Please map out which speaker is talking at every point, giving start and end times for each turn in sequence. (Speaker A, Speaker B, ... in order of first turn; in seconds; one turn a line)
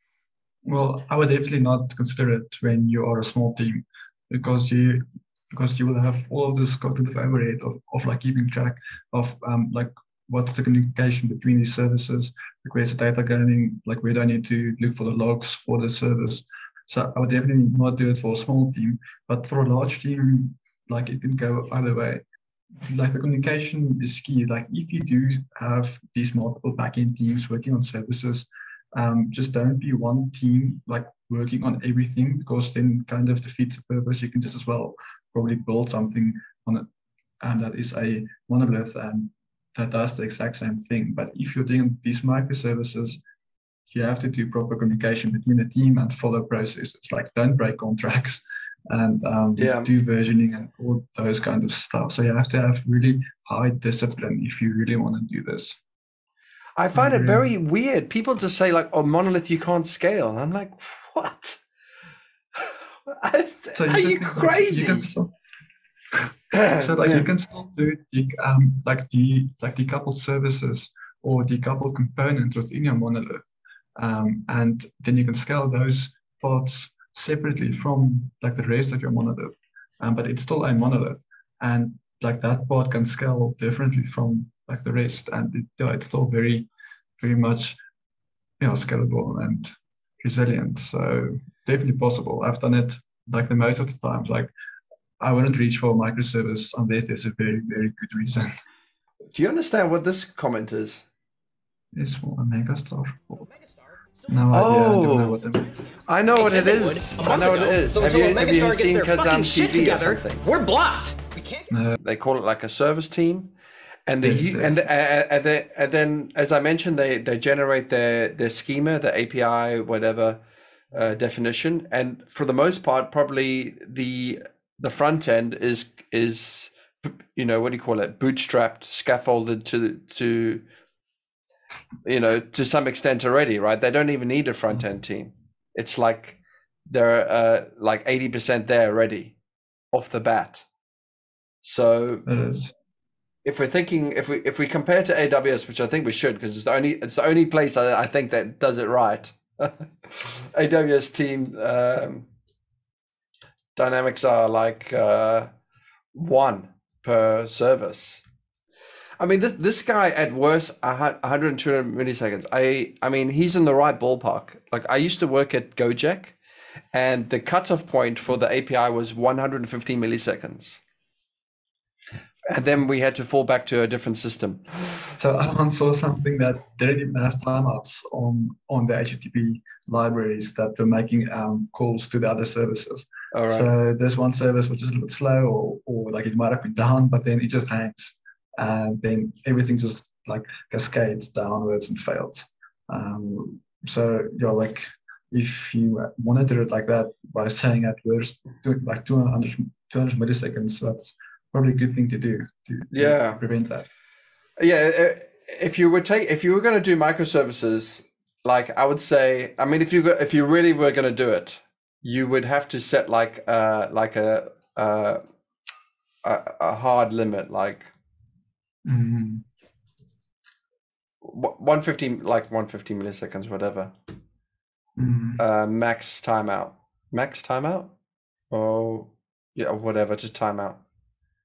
Speaker A: 0.7-22.2
Speaker A: 22.8-36.9
Speaker A: 37.4-43.2
Speaker A: 43.9-55.8
Speaker B: 49.6-49.9
Speaker B: 56.8-61.6
Speaker A: 57.0-57.5
Speaker B: 63.1-65.1
Speaker A: 63.7-65.3
Speaker B: 66.5-67.3
Speaker A: 66.7-86.7
Speaker A: 87.2-87.8
Speaker A: 88.6-94.5
Speaker A: 95.2-98.5
Speaker B: 99.3-101.1
Speaker A: 101.9-103.5
Speaker A: 104.3-105.7
Speaker B: 104.5-105.3
Speaker B: 106.1-110.5
Speaker C: 106.3-111.7
Speaker B: 112.0-113.5
Speaker B: 114.1-120.4
Speaker A: 114.2-114.9
Speaker B: 120.9-130.6
Speaker B: 132.1-139.4
Speaker B: 139.9-140.7
Speaker B: 141.6-142.2
Speaker A: 142.3-142.7
Speaker B: 143.4-152.3
Speaker B: 153.8-155.5
Speaker B: 156.2-158.2
Speaker B: 159.2-166.4
Speaker B: 166.9-170.8
Speaker B: 172.5-175.0
Speaker A: 175.2-203.9
Speaker B: 183.3-183.7
Speaker B: 202.9-203.4
Speaker B: 204.6-215.2
Speaker B: 216.2-217.9
Speaker A: 218.9-219.4
Speaker B: 221.2-223.9
Speaker A: 225.0-225.4
Speaker B: 225.4-227.9
Speaker B: 228.5-230.8